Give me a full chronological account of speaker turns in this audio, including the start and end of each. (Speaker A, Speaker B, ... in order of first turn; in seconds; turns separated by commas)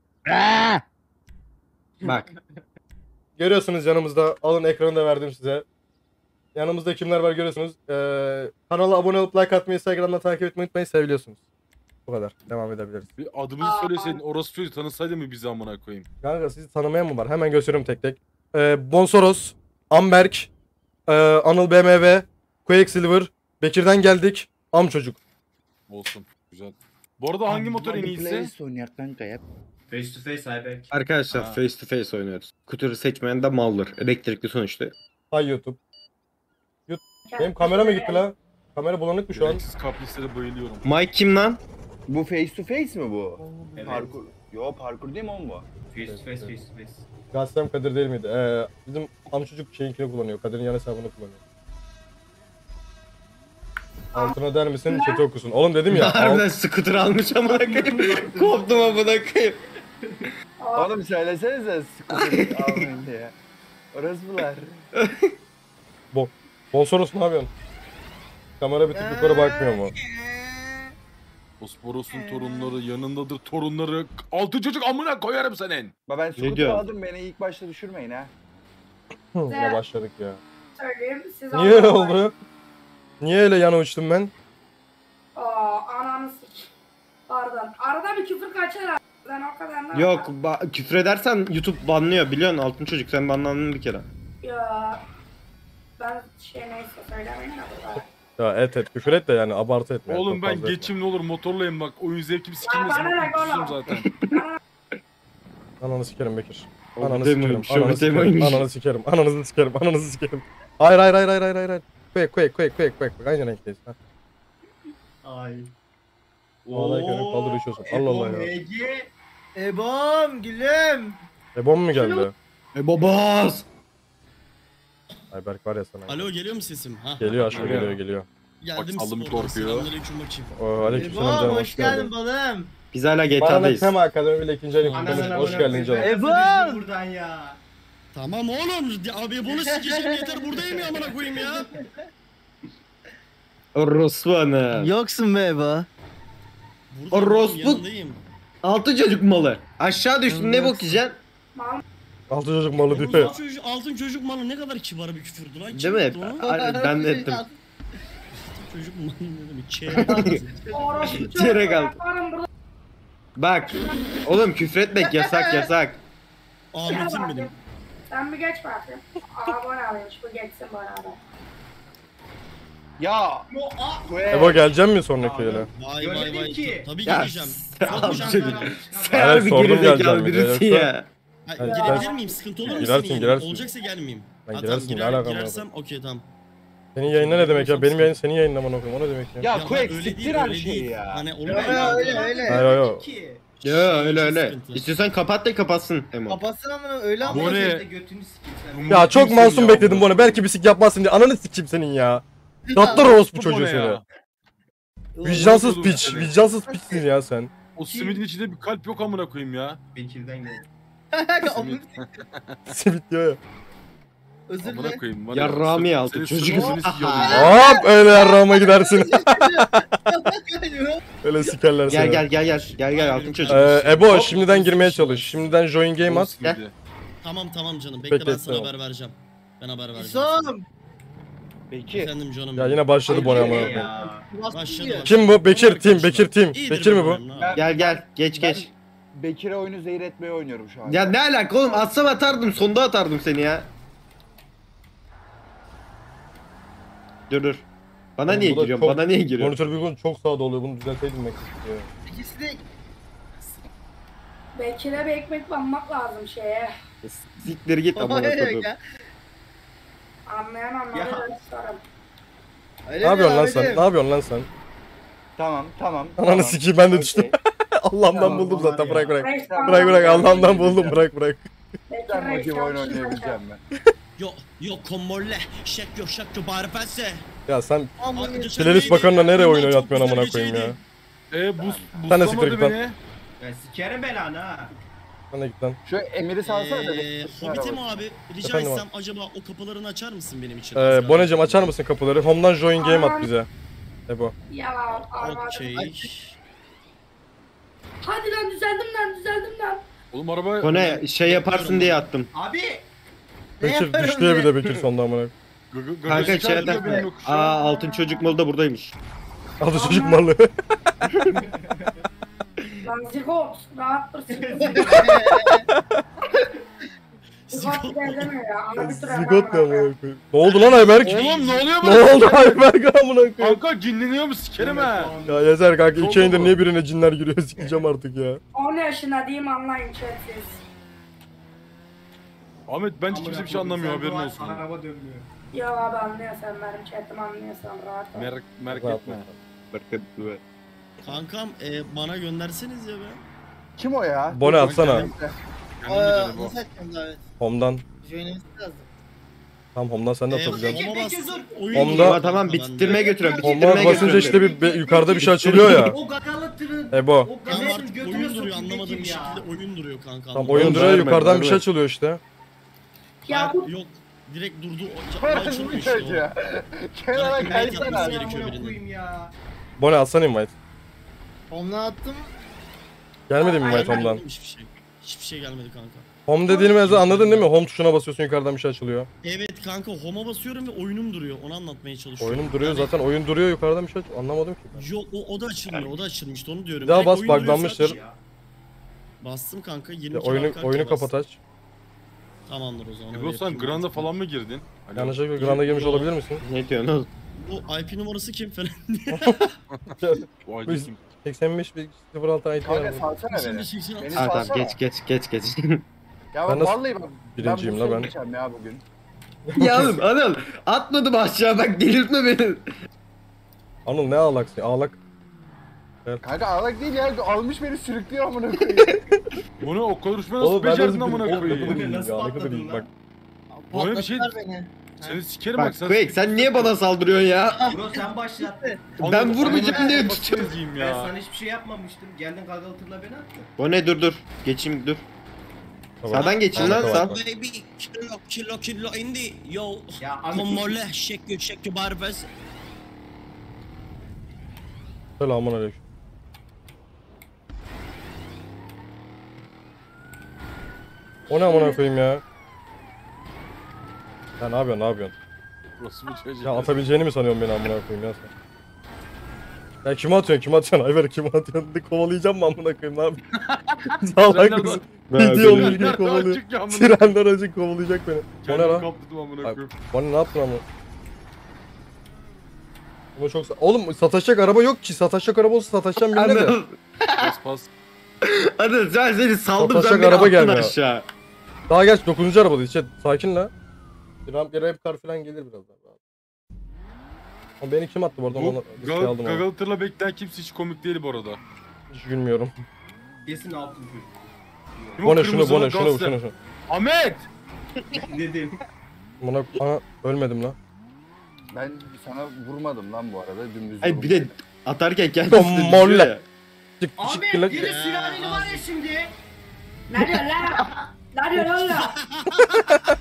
Speaker A: 0.2-0.8, Speaker B: 2.0-2.4, Speaker A: 2.0-2.3, Speaker C: 3.4-5.6, Speaker C: 6.5-11.4, Speaker C: 12.1-13.1, Speaker D: 13.2-16.1, Speaker E: 13.6-14.2, Speaker C: 16.2-20.5, Speaker C: 21.1-25.2, Speaker D: 25.9-28.5, Speaker F: 27.5-29.4, Speaker B: 29.9-30.9, Speaker A: 30.9-34.9, Speaker D: 31.3-31.6, Speaker C: 35.3-35.8, Speaker C: 36.9-39.6, Speaker E: 37.2-38.2, Speaker D: 39.3-40.8, Speaker A: 40.8-41.6, Speaker F: 42.1-45.7, Speaker D: 43.4-44.1, Speaker B: 43.8-44.1, Speaker B: 45.9-47.0, Speaker C: 46.1-46.5, Speaker C: 47.3-51.4, Speaker C: 54.1-56.5, Speaker E: 54.9-55.2, Speaker A: 55.9-59.6, Speaker B: 57.4-59.2, Speaker E: 60.6-60.9, Speaker F: 60.7-63.3, Speaker A: 62.1-62.9, Speaker F: 63.9-64.8, Speaker A: 64.9-65.3, Speaker C: 66.1-67.5, Speaker C: 68.6-69.9, Speaker G: 68.9-70.9, Speaker D: 71.6-75.9, Speaker G: 72.1-72.8, Speaker F: 76.1-78.3, Speaker A: 76.4-76.8, Speaker C: 79.3-80.4, Speaker E: 79.5-79.8, Speaker E: 80.8-82.2, Speaker C: 81.5-82.3, Speaker C: 83.2-84.3, Speaker E: 85.3-86.7, Speaker E: 87.3-90.3, Speaker A: 89.9-94.1, Speaker E: 94.4-95.0, Speaker E: 96.0-98.0, Speaker C: 98.4-100.9, Speaker D: 100.1-104.1, Speaker E: 102.6-104.6, Speaker A: 104.1-104.4, Speaker C: 105.8-114.0, Speaker A: 106.9-108.7, Speaker B: 115.2-115.7, Speaker C: 116.7-118.5, Speaker B: 116.7-119.1, Speaker G: 119.5-121.2, Speaker C: 121.5-122.3, Speaker A: 122.7-123.6, Speaker C: 125.3-126.3, Speaker H: 126.1-127.9, Speaker C: 127.2-128.3, Speaker D: 127.5-128.0, Speaker H: 128.6-130.5, Speaker D: 128.7-129.9, Speaker C: 130.5-132.1, Speaker D: 130.8-131.5, Speaker G: 130.9-132.7, Speaker A: 132.9-133.9, Speaker C: 133.4-136.1, Speaker D: 134.8-135.8, Speaker B: 134.9-137.6, Speaker G: 135.9-136.8, Speaker H: 138.1-141.7, Speaker G: 139.5-140.5, Speaker A: 143.7-144.9, Speaker G: 144.7-145.9, Speaker H: 146.9-148.2, Speaker A: 147.1-147.8, Speaker A: 148.6-151.2, Speaker G: 150.3-151.0, Speaker E: 151.5-151.8, Speaker C: 152.3-153.3, Speaker B: 152.9-153.4, Speaker H: 152.9-156.5, Speaker A: 155.7-157.4, Speaker G: 156.4-157.5, Speaker H: 158.3-161.1, Speaker A: 160.0-160.4, Speaker G: 160.0-160.4, Speaker E: 160.7-162.5, Speaker B: 160.8-161.2, Speaker A: 161.2-162.0, Speaker A: 163.3-166.0, Speaker E: 163.6-164.2, Speaker G: 164.9-165.7, Speaker H: 166.7-167.5, Speaker E: 166.9-167.5, Speaker E: 168.1-171.2, Speaker F: 173.0-173.5, Speaker B: 173.5-174.3, Speaker F: 174.0-174.7, Speaker C: 174.3-175.7, Speaker B: 175.2-176.9, Speaker H: 175.7-178.7, Speaker A: 177.0-181.1, Speaker B: 177.8-179.7, Speaker C: 179.1-180.9, Speaker H: 181.5-186.3, Speaker C: 181.6-182.1, Speaker E: 181.6-182.3, Speaker C: 182.7-183.7, Speaker C: 184.5-185.6, Speaker C: 186.9-189.5, Speaker D: 187.0-188.1, Speaker F: 189.4-191.4, Speaker H: 189.5-192.3, Speaker G: 191.4-192.7, Speaker B: 191.6-193.6, Speaker C: 192.4-193.0, Speaker H: 193.6-194.8, Speaker A: 193.6-196.4, Speaker G: 196.3-197.8, Speaker B: 197.2-199.7, Speaker D: 197.2-197.9, Speaker D: 198.7-200.4, Speaker C: 198.9-204.0, Speaker G: 202.7-203.2, Speaker D: 203.1-204.0, Speaker G: 205.2-207.1, Speaker D: 205.2-206.3, Speaker C: 205.2-207.5, Speaker D: 207.8-209.8, Speaker B: 207.8-208.2, Speaker B: 209.9-210.7, Speaker G: 211.1-212.1, Speaker D: 211.4-212.6, Speaker C: 212.7-213.4, Speaker G: 214.5-215.0, Speaker D: 214.6-217.6, Speaker A: 215.3-217.4, Speaker G: 216.5-221.0, Speaker C: 217.3-220.2, Speaker C: 221.2-222.2, Speaker A: 221.9-223.8, Speaker H: 222.8-224.1, Speaker D: 223.5-226.7, Speaker C: 223.5-226.5, Speaker H: 227.2-230.6, Speaker C: 228.1-228.7, Speaker G: 229.9-230.6, Speaker F: 231.7-232.1, Speaker H: 231.9-233.1, Speaker C: 232.5-233.9, Speaker B: 233.1-234.3, Speaker G: 233.1-235.1, Speaker H: 234.5-237.6, Speaker C: 235.1-237.2, Speaker F: 237.3-241.2, Speaker A: 237.5-238.7, Speaker A: 240.8-243.7, Speaker A: 247.3-249.5, Speaker C: 248.3-251.9, Speaker G: 252.1-252.6, Speaker E: 254.6-256.7, Speaker A: 257.0-258.7, Speaker G: 257.9-258.8, Speaker E: 260.3-261.8, Speaker B: 260.9-261.3, Speaker G: 262.9-263.9, Speaker C: 263.0-264.5, Speaker F: 265.4-267.3, Speaker C: 266.2-271.4, Speaker F: 268.1-271.0, Speaker B: 268.1-269.1, Speaker E: 269.2-270.7, Speaker E: 271.9-273.4, Speaker F: 272.1-273.6, Speaker H: 274.2-277.3, Speaker C: 277.5-278.0, Speaker G: 278.0-278.7, Speaker H: 278.1-280.8, Speaker C: 278.5-280.8, Speaker D: 281.3-283.0, Speaker F: 281.6-282.2, Speaker C: 282.1-282.8, Speaker B: 283.4-284.7, Speaker C: 285.3-285.8, Speaker F: 285.8-288.0, Speaker H: 286.4-291.7, Speaker C: 288.4-288.8, Speaker C: 290.7-293.5, Speaker E: 292.8-293.3, Speaker C: 294.1-294.3, Speaker E: 294.5-295.8, Speaker H: 295.1-296.1, Speaker E: 298.0-299.8, Speaker D: 300.1-301.1, Speaker A: 300.6-302.3, Speaker H: 301.3-301.9, Speaker B: 302.3-302.9, Speaker G: 303.6-304.7, Speaker C: 303.6-305.3, Speaker D: 305.7-307.7, Speaker A: 306.0-308.9, Speaker E: 307.7-308.1, Speaker C: 309.6-310.5, Speaker E: 309.7-310.3, Speaker B: 311.3-312.0, Speaker E: 312.8-315.0, Speaker B: 314.3-315.2, Speaker G: 314.8-315.6, Speaker H: 317.5-318.3, Speaker E: 317.5-319.9, Speaker C: 318.8-323.6, Speaker H: 320.5-321.7, Speaker D: 321.0-322.7, Speaker D: 323.4-325.1, Speaker B: 324.6-325.5, Speaker C: 325.2-328.4, Speaker D: 326.0-326.6, Speaker E: 328.5-330.6, Speaker D: 332.7-334.6, Speaker B: 333.1-335.3, Speaker E: 335.5-338.3, Speaker D: 338.1-339.2, Speaker C: 338.7-339.4, Speaker A: 339.7-340.4, Speaker H: 341.0-343.2, Speaker F: 343.8-345.4, Speaker C: 344.3-345.1, Speaker D: 344.4-345.1, Speaker D: 345.8-346.6, Speaker G: 345.8-347.2, Speaker C: 347.4-347.8, Speaker G: 348.0-348.9, Speaker C: 349.7-350.8, Speaker H: 350.3-353.1, Speaker B: 350.5-351.9, Speaker C: 351.7-352.2, Speaker A: 351.9-354.5, Speaker B: 352.8-359.4, Speaker C: 353.4-356.0, Speaker E: 354.8-355.1, Speaker A: 355.2-355.9, Speaker C: 356.9-357.3, Speaker H: 357.5-361.0, Speaker C: 360.3-362.2, Speaker A: 360.5-361.6, Speaker E: 363.2-363.7, Speaker H: 363.3-366.2, Speaker F: 365.2-368.4, Speaker H: 367.1-368.8, Speaker B: 367.4-369.3, Speaker C: 369.8-370.5, Speaker G: 371.5-372.3, Speaker C: 373.3-374.2, Speaker E: 373.4-374.1, Speaker H: 373.6-376.9, Speaker C: 376.3-379.1, Speaker D: 376.8-377.4, Speaker H: 379.2-382.9, Speaker C: 382.2-384.8, Speaker H: 384.7-388.0, Speaker C: 386.8-388.0, Speaker B: 387.2-388.2, Speaker H: 389.2-391.1, Speaker C: 390.1-391.4, Speaker H: 392.4-394.1, Speaker D: 393.1-396.1, Speaker C: 394.9-396.4, Speaker A: 396.4-397.1, Speaker H: 397.3-399.5, Speaker C: 399.1-399.4, Speaker C: 400.0-403.1, Speaker D: 400.4-401.0, Speaker F: 402.6-404.8, Speaker H: 403.3-404.5, Speaker A: 404.1-405.8, Speaker F: 406.3-408.8, Speaker C: 406.5-406.8, Speaker C: 407.3-408.1, Speaker C: 409.5-410.0, Speaker A: 409.6-412.6, Speaker C: 413.8-415.0, Speaker F: 416.2-419.0, Speaker D: 419.6-421.9, Speaker C: 420.4-422.9, Speaker B: 421.3-422.9, Speaker G: 423.5-425.2, Speaker D: 423.7-424.3, Speaker D: 425.0-427.3, Speaker A: 425.5-427.7, Speaker G: 427.6-428.8, Speaker B: 427.7-433.5, Speaker D: 429.0-431.1, Speaker A: 429.0-430.5, Speaker A: 433.6-435.0, Speaker C: 436.0-437.2, Speaker A: 436.1-437.2, Speaker H: 436.1-442.3, Speaker B: 440.0-440.8, Speaker C: 445.2-445.8, Speaker C: 451.3-452.2, Speaker E: 451.4-451.8, Speaker C: 454.4-455.1, Speaker D: 455.8-456.9, Speaker C: 456.4-458.3, Speaker C: 459.8-463.2, Speaker D: 463.5-467.1, Speaker C: 464.0-468.9, Speaker A: 465.1-465.9, Speaker D: 468.4-469.7, Speaker C: 469.4-470.6, Speaker C: 473.1-476.6, Speaker A: 476.1-477.3, Speaker D: 477.2-477.7, Speaker A: 478.2-481.1, Speaker C: 479.6-480.7, Speaker C: 481.7-483.5, Speaker C: 484.2-486.0, Speaker C: 487.6-489.4, Speaker D: 488.3-491.4, Speaker C: 491.9-492.5, Speaker B: 493.2-495.1, Speaker D: 495.0-496.1, Speaker C: 495.0-496.3, Speaker D: 496.7-497.2, Speaker B: 498.0-498.6, Speaker C: 499.2-500.6, Speaker F: 501.5-504.4, Speaker A: 503.8-506.2, Speaker C: 505.3-506.1, Speaker C: 506.8-507.6, Speaker B: 507.0-509.1, Speaker H: 507.5-508.6, Speaker E: 509.9-512.0